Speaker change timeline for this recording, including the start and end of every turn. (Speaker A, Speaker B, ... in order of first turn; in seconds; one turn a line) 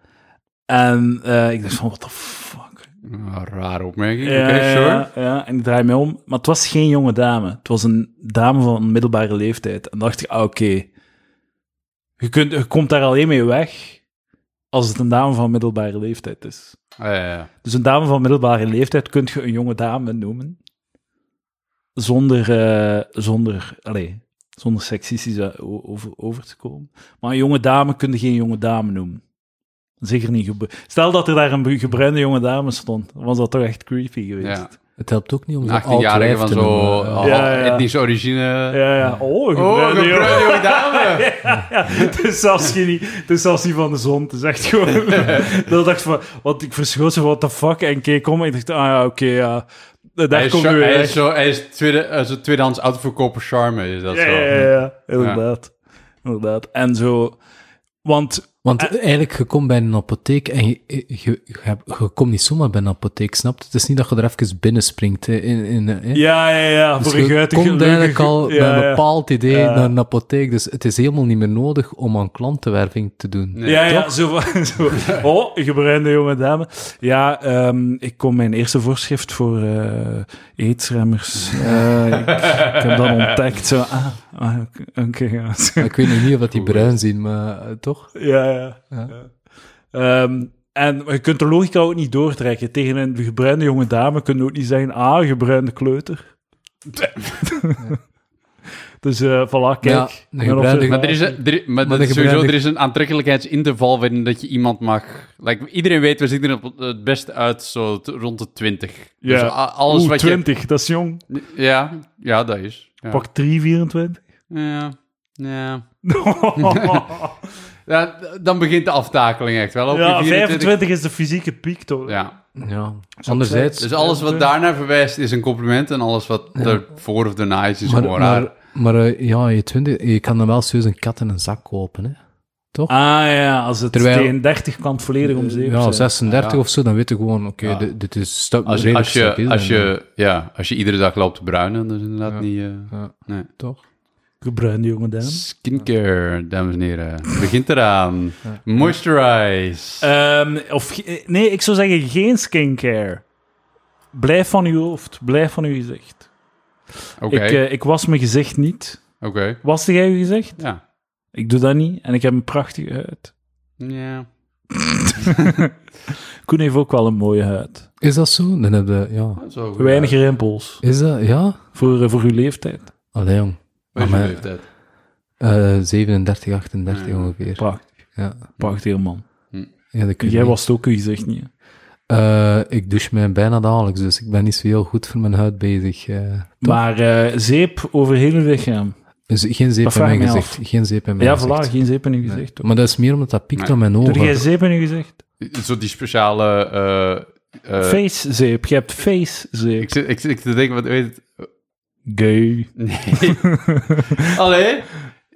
Speaker A: 0.7-2.9
Speaker B: 3.0-5.1
Speaker A: 4.2-10.9
Speaker A: 12.2-14.0
Speaker A: 14.7-16.8
Speaker B: 17.0-17.5
Speaker A: 17.6-20.6
Speaker A: 22.0-29.2
Speaker A: 30.0-34.7
Speaker B: 34.4-34.7
Speaker C: 35.0-37.4
Speaker B: 35.6-38.8
Speaker A: 37.2-37.9
Speaker A: 38.7-51.2
Speaker B: 39.5-41.3
Speaker B: 45.1-45.5
Speaker B: 50.3-54.6
Speaker A: 54.1-57.4
Speaker B: 55.2-55.4
Speaker A: 58.0-58.9
Speaker C: 58.6-66.2
Speaker A: 66.1-69.9
Speaker C: 67.0-74.2
Speaker B: 73.5-73.9
Speaker A: 73.7-86.3
Speaker C: 81.6-81.9
Speaker B: 82.4-83.2
Speaker C: 85.8-88.2
Speaker B: 86.5-86.9
Speaker A: 88.2-89.3
Speaker A: 89.9-96.3
Speaker B: 97.0-97.3
Speaker A: 97.4-98.0
Speaker A: 99.0-101.4
Speaker C: 99.8-101.1
Speaker B: 100.9-110.4
Speaker C: 101.8-102.6
Speaker A: 109.2-111.2
Speaker B: 111.3-113.2
Speaker A: 113.1-114.2
Speaker B: 114.5-115.9
Speaker A: 116.0-117.4
Speaker B: 116.6-117.1
Speaker B: 117.9-120.7
Speaker A: 119.9-122.2
Speaker B: 122.1-122.4
Speaker C: 122.6-123.9
Speaker A: 123.2-124.5
Speaker B: 123.8-128.5
Speaker C: 127.8-132.2
Speaker A: 132.9-136.1
Speaker C: 133.9-134.3
Speaker C: 135.2-139.9
Speaker B: 136.3-136.6
Speaker B: 138.7-143.5
Speaker C: 142.3-143.8
Speaker A: 144.4-145.4
Speaker B: 145.2-150.1
Speaker A: 150.0-153.2
Speaker A: 154.1-156.3
Speaker B: 157.2-157.6
Speaker A: 157.3-159.1
Speaker B: 159.2-159.6
Speaker A: 159.6-160.6
Speaker A: 161.3-163.3
Speaker B: 163.8-164.3
Speaker A: 164.7-165.7
Speaker A: 166.4-167.9
Speaker C: 168.0-169.4
Speaker B: 169.4-170.2
Speaker A: 169.8-170.8
Speaker C: 170.8-171.6
Speaker A: 171.8-172.9
Speaker C: 173.1-174.4
Speaker B: 173.9-174.6
Speaker C: 175.4-178.5
Speaker B: 176.9-177.3
Speaker A: 177.6-177.9
Speaker A: 178.6-179.2
Speaker C: 179.9-180.6
Speaker A: 180.2-181.5
Speaker C: 182.1-186.8
Speaker A: 186.6-188.9
Speaker C: 189.3-191.7
Speaker A: 189.8-190.6
Speaker A: 191.2-192.7
Speaker C: 192.3-194.4
Speaker A: 194.0-195.2
Speaker B: 195.4-198.0
Speaker A: 197.8-199.9
Speaker B: 199.8-201.5
Speaker A: 202.1-202.7
Speaker B: 202.8-203.5
Speaker A: 203.2-204.2
Speaker B: 204.2-205.0